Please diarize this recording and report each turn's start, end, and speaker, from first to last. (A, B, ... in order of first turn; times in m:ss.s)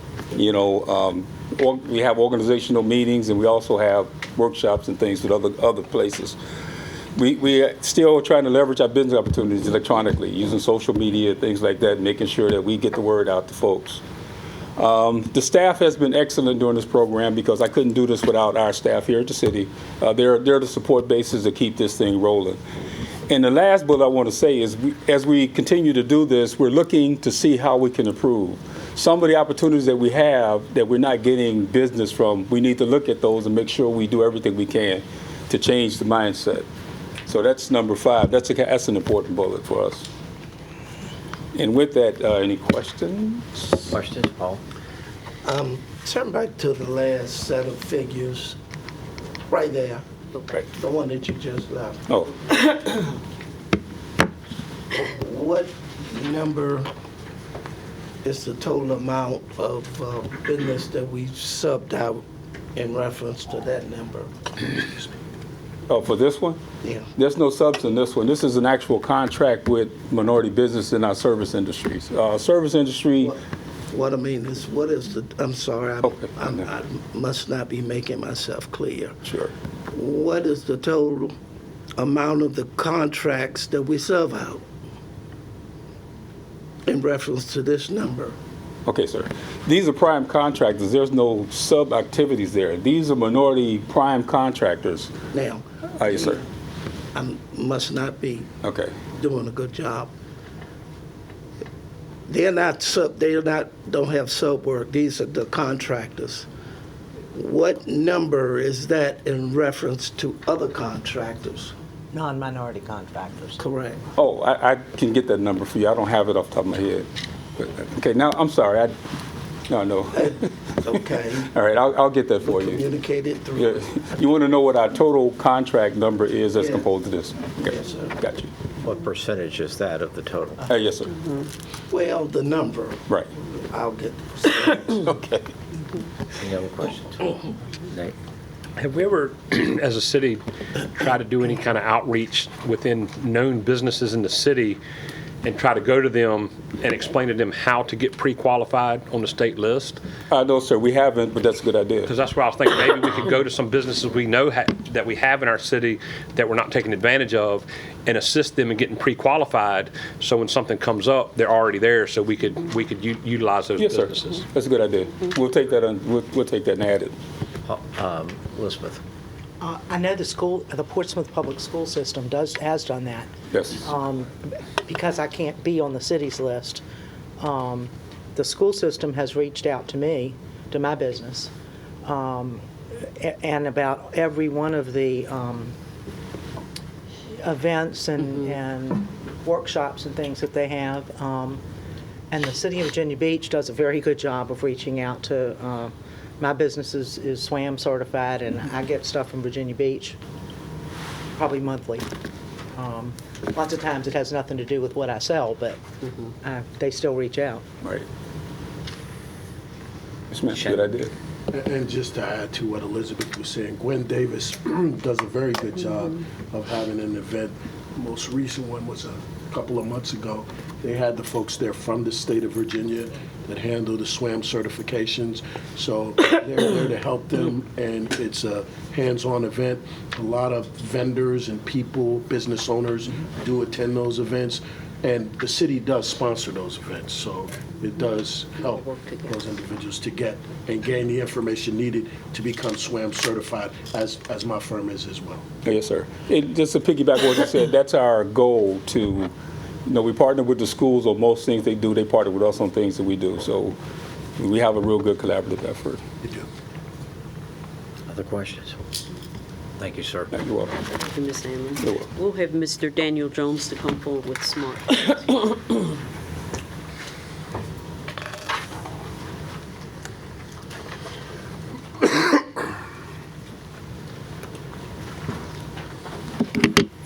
0:00.3-0:06.4 A
0:07.2-0:14.0 A
0:14.8-0:22.6 A
0:23.3-0:36.7 A
0:37.3-0:40.1 A
0:41.6-0:44.0 A
0:43.9-0:44.6 B
0:45.4-0:48.6 C
0:49.5-0:50.0 C
0:50.7-0:52.1 C
0:52.1-0:52.6 A
0:54.9-0:56.9 C
0:58.2-1:02.2 C
1:02.7-1:05.1 C
1:05.9-1:06.6 A
1:06.8-1:07.1 C
1:07.2-1:13.3 A
1:13.2-1:19.2 C
1:16.0-1:16.6 A
1:19.3-1:19.5 A
1:19.9-1:21.4 C
1:22.0-1:24.6 C
1:26.8-1:28.4 C
1:28.9-1:35.1 A
1:35.3-1:36.4 C
1:36.0-1:36.4 A
1:37.1-1:38.5 C
1:38.6-1:39.0 A
1:39.1-1:40.1 C
1:42.3-1:46.5 C
1:47.3-1:51.7 C
1:52.1-1:53.6 D
1:53.6-1:54.0 C
1:54.2-1:59.0 A
1:59.7-2:00.5 A
2:00.1-2:01.5 C
2:01.4-2:02.8 A
2:02.4-2:04.1 C
2:03.6-2:08.5 A
2:06.6-2:06.9 C
2:07.6-2:08.2 C
2:08.8-2:10.6 B
2:10.7-2:11.2 A
2:11.9-2:15.0 C
2:15.0-2:15.5 A
2:16.4-2:18.2 B
2:18.8-2:24.8 E
2:25.4-2:30.0 E
2:30.3-2:32.1 A
2:32.1-2:44.4 E
2:43.8-2:47.1 A
2:47.6-2:49.0 B
2:49.6-2:56.8 D
2:53.5-2:53.8 A
2:57.4-3:01.5 D
3:02.0-3:02.6 D
3:03.2-3:05.7 D
3:07.4-3:11.6 D
3:12.3-3:20.2 D
3:21.4-3:22.1 D
3:22.8-3:25.8 D
3:26.4-3:27.6 D
3:30.3-3:31.1 A
3:30.5-3:30.9 B
3:31.5-4:05.4 F
3:58.9-3:59.3 G
4:05.6-4:09.3 A
4:09.9-4:13.8 A
4:14.4-4:16.0 A
4:16.2-4:16.5 F
4:18.1-4:18.8 B
4:19.8-4:20.3 B
4:20.3-4:20.7 A
4:20.9-4:25.9 G
4:21.8-4:22.1 A